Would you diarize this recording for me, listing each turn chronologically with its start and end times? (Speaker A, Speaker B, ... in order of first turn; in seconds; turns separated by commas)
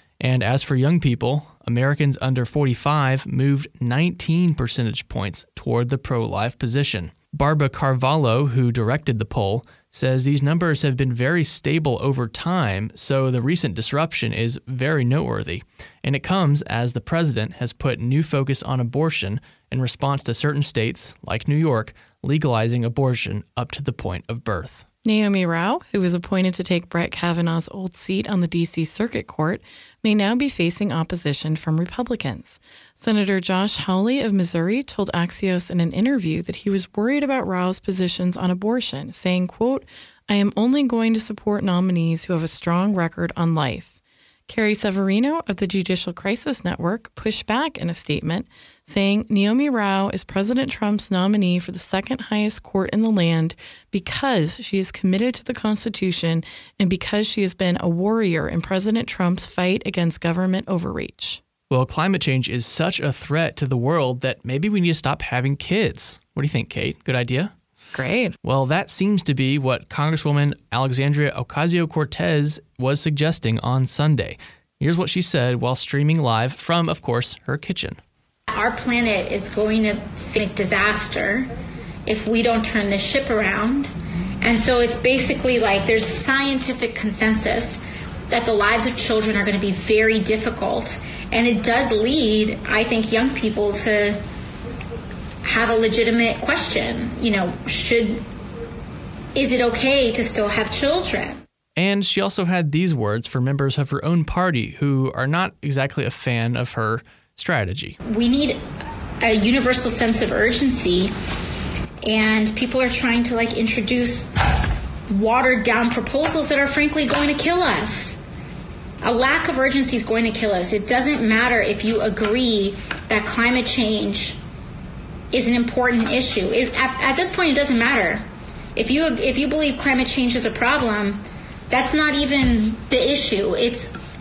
Speaker A: 0.2-24.9, Speaker B: 25.0-61.4, Speaker A: 61.7-67.5, Speaker B: 67.9-68.3, Speaker A: 68.4-78.0, Speaker C: 78.5-81.5, Speaker C: 82.0-94.2, Speaker C: 95.4-98.2, Speaker C: 99.3-101.4, Speaker A: 101.8-108.0, Speaker C: 108.1-108.6, Speaker C: 109.2-111.1, Speaker C: 112.0-114.5, Speaker C: 115.1-118.2, Speaker C: 119.0-124.4, Speaker C: 125.3-128.2, Speaker C: 128.8-133.9